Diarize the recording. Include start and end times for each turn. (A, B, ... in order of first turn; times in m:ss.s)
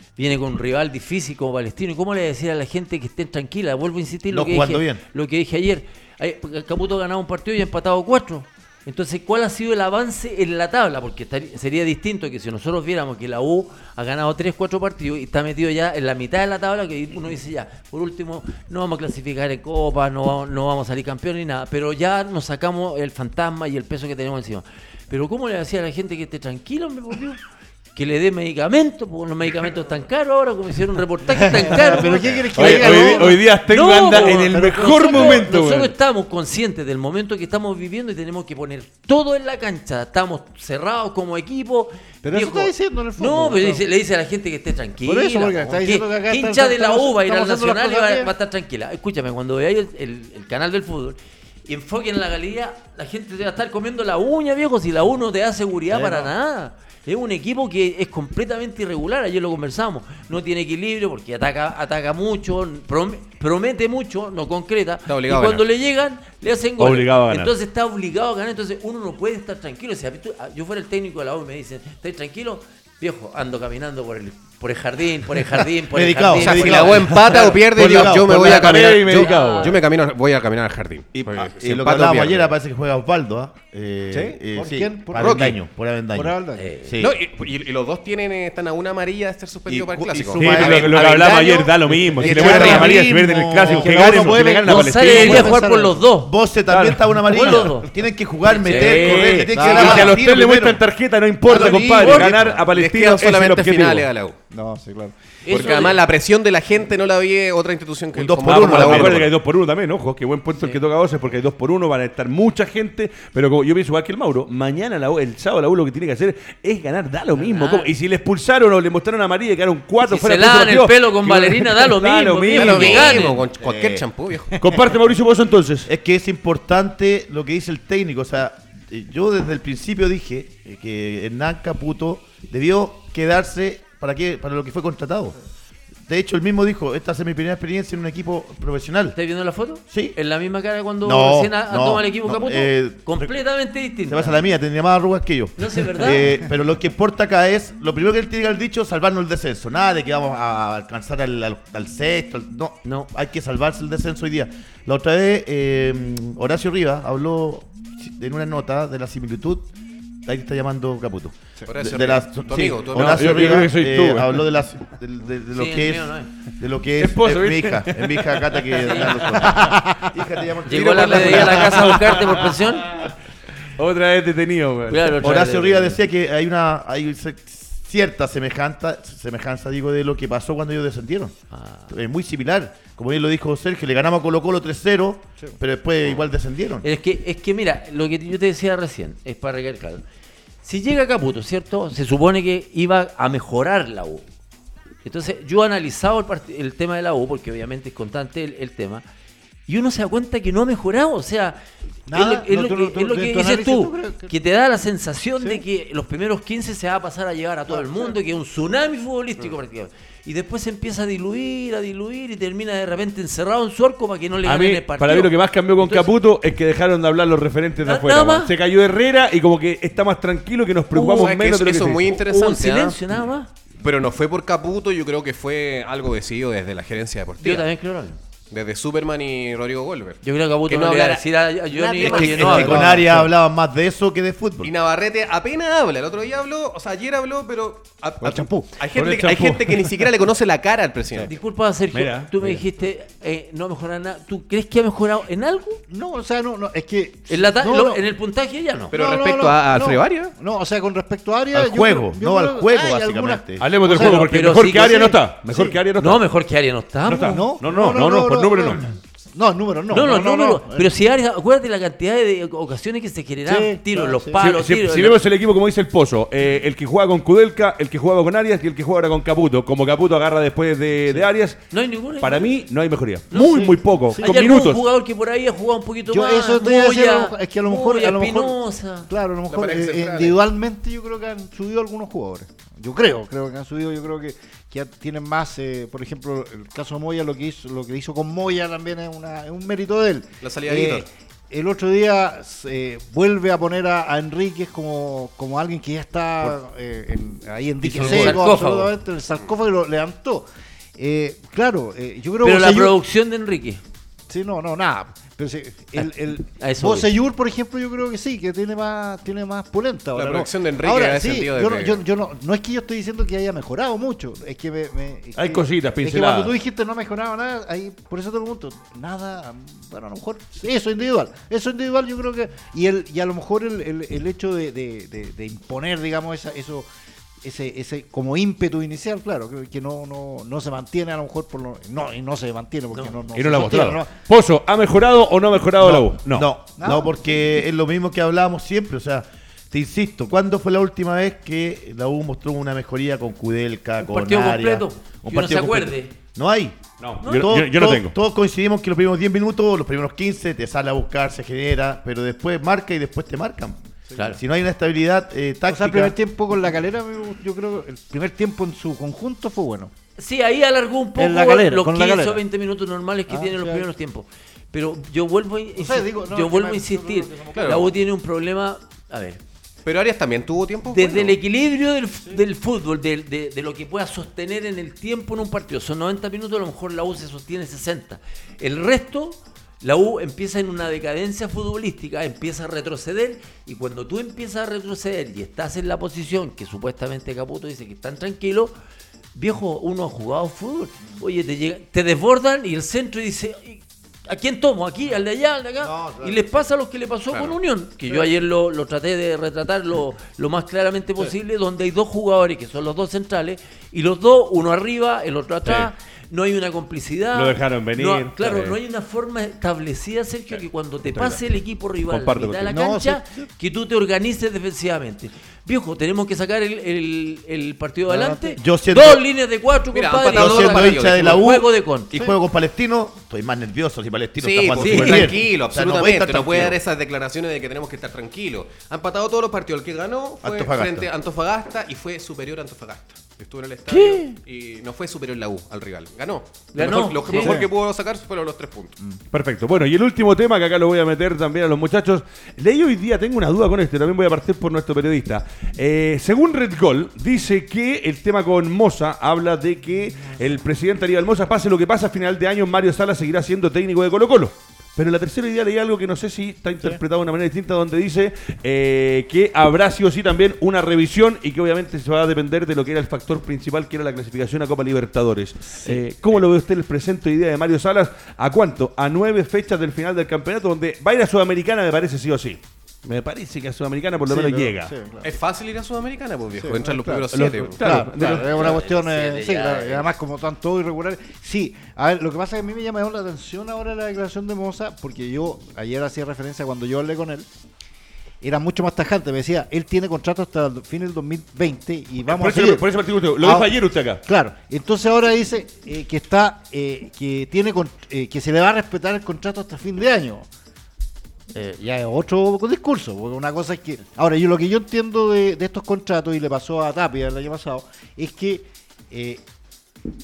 0:00.2-0:27.4 A
0:04.3-0:05.0 B
0:27.9-1:17.1 A
0:31.5-0:33.5 C
0:32.0-0:32.5 D
0:32.5-0:35.9 E
0:34.1-0:35.4 C
0:42.2-0:43.8 C
0:45.0-0:48.3 C
0:55.9-0:56.3 C
1:05.1-1:05.6 D
1:06.8-1:07.5 E
1:15.9-1:18.7 B
1:16.4-1:22.5 D
1:17.4-1:19.8 E
1:19.0-1:19.8 A
1:21.1-1:27.2 B
1:24.1-1:25.6 C
1:25.1-1:25.6 D
1:26.1-1:26.7 C
1:26.5-1:27.0 A
1:27.0-1:32.9 D
1:29.7-1:31.2 B
1:30.3-1:35.6 E
1:32.0-1:36.0 C
1:32.2-1:34.6 B
1:34.6-1:36.3 A
1:36.2-1:40.8 B
1:36.7-1:37.7 E
1:37.3-1:37.9 A
1:38.5-1:39.6 A
1:38.7-1:44.1 E
1:39.5-1:40.2 C
1:39.6-1:40.1 D
1:41.5-1:42.6 B
1:41.5-1:44.4 D
1:41.8-1:42.4 A
1:44.5-1:45.2 C
1:45.4-1:46.0 A
1:45.5-1:49.3 D
1:48.2-1:49.3 B
1:48.4-2:03.2 E
1:57.4-1:57.9 A
2:00.0-2:03.4 A
2:02.5-2:04.9 D
2:03.6-2:04.0 B
2:04.6-2:05.9 E
2:05.8-2:15.3 B
2:16.1-2:19.2 B
2:19.1-2:24.4 A
2:19.9-2:20.2 B
2:21.0-2:23.4 B
2:24.1-2:39.7 B
2:25.6-2:26.4 A
2:32.8-2:33.1 A
2:40.2-2:52.2 B
2:41.7-2:43.6 D
2:43.0-2:44.4 E
2:45.5-2:46.3 A
2:47.0-2:48.7 E
2:48.8-2:49.2 A
2:49.3-2:50.2 C
2:50.6-2:53.0 A
2:50.8-2:51.2 D
2:51.1-2:53.1 E
2:53.8-2:55.2 E
2:54.9-2:56.0 A
2:55.2-3:01.4 B
3:01.5-3:01.9 A
3:01.9-3:06.8 B
3:06.8-3:10.0 A
3:10.6-3:14.2 A
3:15.0-3:19.0 A
3:19.7-3:36.1 A
3:22.1-3:24.3 C
3:27.7-3:28.2 C
3:34.4-3:42.1 E
3:37.8-3:38.5 A
3:40.9-3:41.3 A
3:41.0-3:43.0 D
3:42.3-3:43.5 A
3:43.8-3:47.7 D
3:47.4-3:48.2 A
3:48.5-3:52.8 D
3:50.2-3:53.0 A
3:52.0-3:54.7 B
3:52.4-3:53.3 C
3:54.6-4:01.3 D
3:58.2-3:58.7 C
3:58.9-4:00.0 E
4:01.2-4:05.8 A
4:01.9-4:02.6 E
4:05.9-4:08.0 C
4:07.3-4:08.9 A
4:08.9-4:10.3 D
4:08.9-4:15.8 C
4:11.5-4:13.6 B
4:13.6-4:16.2 E
4:13.9-4:15.2 A
4:16.0-4:17.4 A
4:17.1-4:18.8 E
4:17.3-4:20.9 C
4:19.9-4:25.2 A
4:23.5-4:24.4 C
4:24.4-4:34.8 E
4:31.7-4:32.6 A
4:33.3-4:39.1 A
4:33.3-4:34.3 C
4:36.1-4:38.6 C
4:39.1-5:00.4 C
4:39.5-4:40.4 D
4:50.4-4:51.1 D
4:57.8-4:58.9 A
5:01.0-5:03.0 C
5:02.4-5:03.8 A
5:04.3-5:26.8 C
5:06.0-5:07.1 A
5:10.1-5:12.0 D
5:15.4-5:16.5 E
5:27.4-5:34.2 C
5:33.3-5:36.5 E
5:35.8-5:53.8 B
5:36.8-5:37.1 C
5:44.0-5:46.1 A
5:47.0-5:48.1 E
5:47.2-5:47.5 A
5:54.3-5:56.2 B
5:55.7-5:59.9 C
6:00.2-6:09.4 A
6:01.2-6:02.4 C
6:03.3-6:03.9 C
6:05.8-6:07.9 C
6:07.5-6:07.9 D
6:09.8-6:11.4 D
6:10.9-6:28.7 A
6:29.4-7:02.1 A
6:35.8-6:36.4 B
6:45.6-6:45.9 E
6:47.3-6:48.8 E
6:51.1-6:51.4 E
6:52.1-6:52.8 E
6:52.7-6:53.5 C
6:58.1-6:58.6 C
6:58.6-6:59.2 B
6:59.9-7:01.4 D
7:00.3-7:06.8 B
7:04.4-7:19.0 D
7:04.8-7:05.3 A
7:10.4-7:11.1 B
7:13.9-7:14.4 A
7:16.7-7:17.6 A
7:17.3-7:17.7 C
7:19.3-7:54.9 E
7:54.2-7:55.3 C
7:55.2-7:58.0 D
7:56.6-7:57.3 C
7:57.3-7:58.5 E
7:57.8-8:07.5 C
7:58.2-8:00.2 A
8:08.4-8:12.9 C
8:12.2-8:14.2 E
8:13.4-8:13.7 C
8:14.2-8:20.5 C
8:21.5-8:29.4 C